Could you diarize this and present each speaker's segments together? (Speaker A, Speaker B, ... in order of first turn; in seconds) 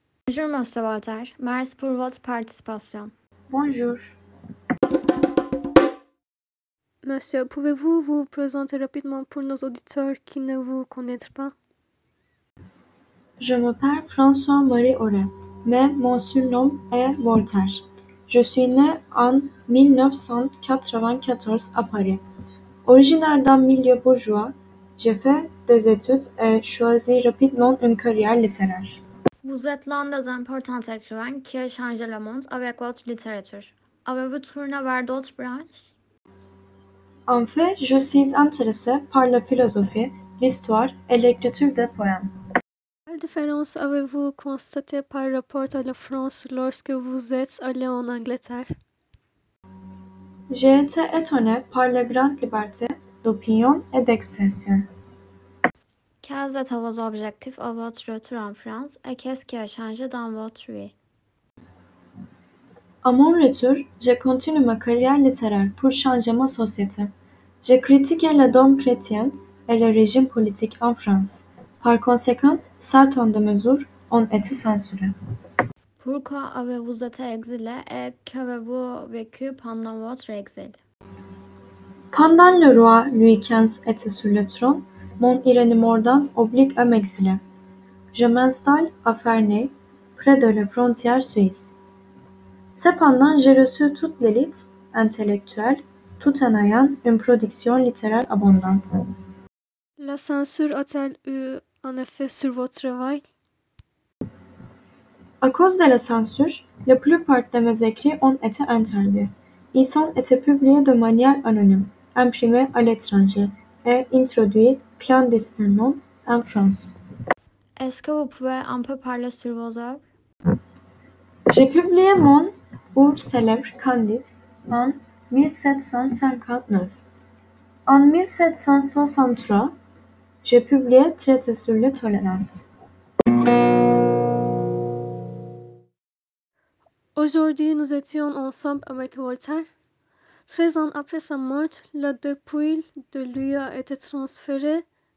Speaker A: 0.3-3.1, 29.4-35.9, 56.2-60.9, 76.0-80.8, 117.8-120.0
Speaker B: 3.5-4.2, 13.4-22.2, 22.9-29.0, 37.3-42.3, 50.5-54.9, 63.0-75.1, 82.1-87.4, 88.1-91.7, 92.7-99.0, 105.4-116.9, 121.5-127.0, 127.9-129.7, 130.4-132.7
Speaker C: 7.0-11.5, 43.1-48.7, 100.0-103.2, 137.2-139.7, 140.5-144.8